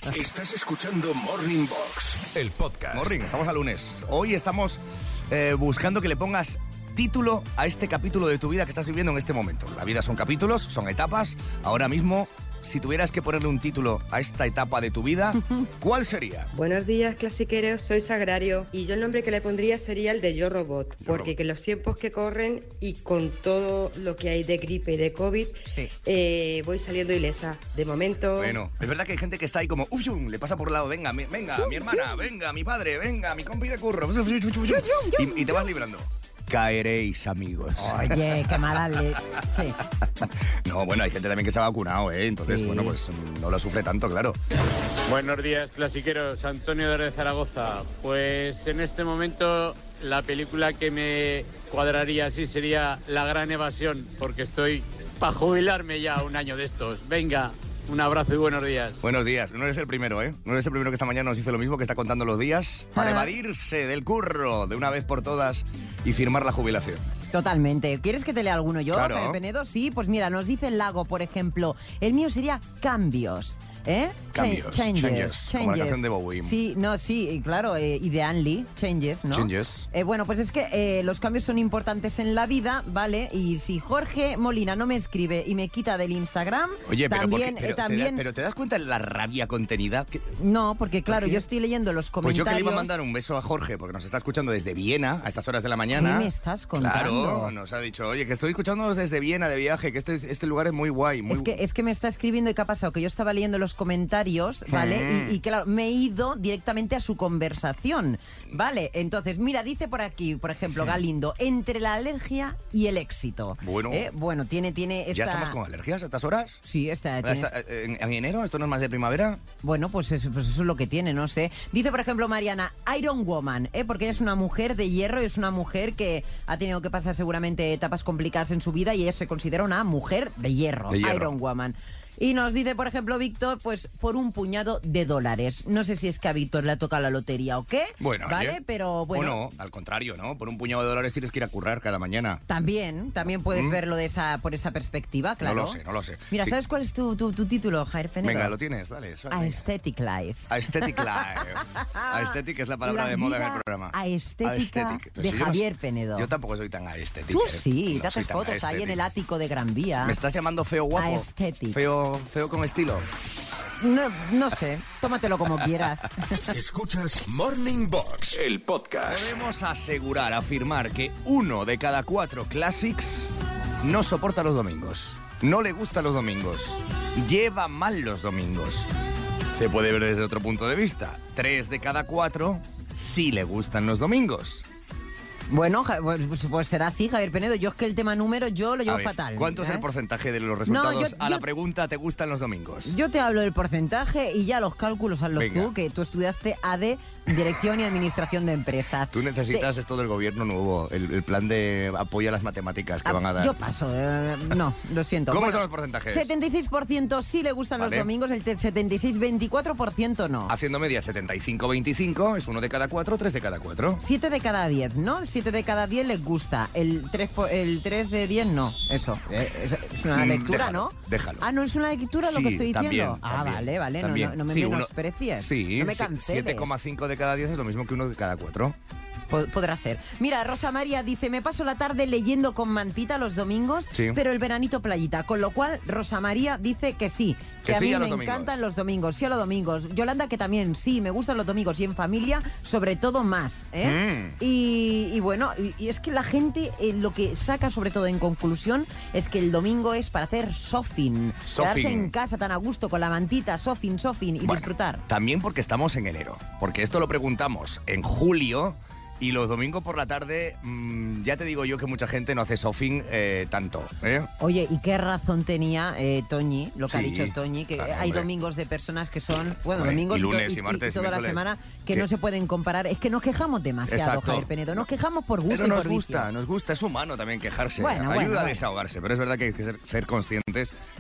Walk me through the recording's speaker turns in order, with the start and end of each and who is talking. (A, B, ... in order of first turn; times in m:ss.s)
0:00.1-0:03.0 A
0:02.9-0:16.5 B
0:16.5-0:28.6 C
0:21.0-0:21.3 B
0:28.4-0:38.6 B
0:34.6-0:35.7 D
0:37.8-0:39.8 D
0:40.2-0:44.4 B
0:42.4-0:43.0 D
0:45.0-0:59.0 E
0:59.0-1:07.0 B
1:02.9-1:03.3 D
1:07.3-1:28.2 D
1:08.9-1:09.4 B
1:14.3-1:16.6 B
1:19.3-1:19.9 B
1:26.8-1:30.2 B
1:30.4-1:32.9 D
1:31.1-1:31.4 B
1:32.2-1:41.6 B
1:35.9-1:37.5 D
1:41.3-1:55.6 D
1:44.7-1:45.4 B
1:53.6-1:54.1 B
1:55.1-1:56.6 B
1:56.6-1:57.5 D
1:57.2-1:59.4 B
1:59.6-2:19.4 D
2:10.9-2:11.3 B
2:18.0-2:18.6 B
2:19.1-2:22.4 B
2:22.5-2:25.8 D
2:23.5-2:23.8 B
2:25.4-2:26.6 B
2:26.3-2:28.5 D
2:28.2-2:29.6 B
2:29.3-2:30.5 D
2:30.5-2:39.0 B
2:31.1-2:36.3 D
2:37.3-2:40.2 D
2:40.0-2:43.0 B
2:40.9-2:41.8 D
2:43.8-2:46.6 D
2:46.5-2:49.3 A
2:49.1-2:53.3 B
2:53.8-2:58.9 B
2:59.5-3:04.6 B
3:05.5-3:09.8 D
3:08.9-3:12.9 B
3:10.6-3:11.4 D
3:12.8-3:19.7 D
3:15.4-3:15.7 B
3:19.1-3:23.5 B
3:23.0-3:30.5 D
3:25.3-3:26.3 B
3:27.8-3:28.1 B
3:30.5-3:34.0 B
3:34.0-3:46.7 D
3:40.1-3:41.4 B
3:42.2-3:48.8 B
3:49.3-4:15.0 D
3:53.9-3:54.2 B
3:57.6-3:58.6 B
4:03.8-4:04.4 B
4:11.5-4:12.1 B
4:14.4-4:24.3 B
4:24.4-4:36.3 D
4:26.9-4:28.3 B
4:29.7-4:32.0 B
4:33.9-4:34.8 B
4:35.5-4:40.7 B
4:37.8-4:38.6 D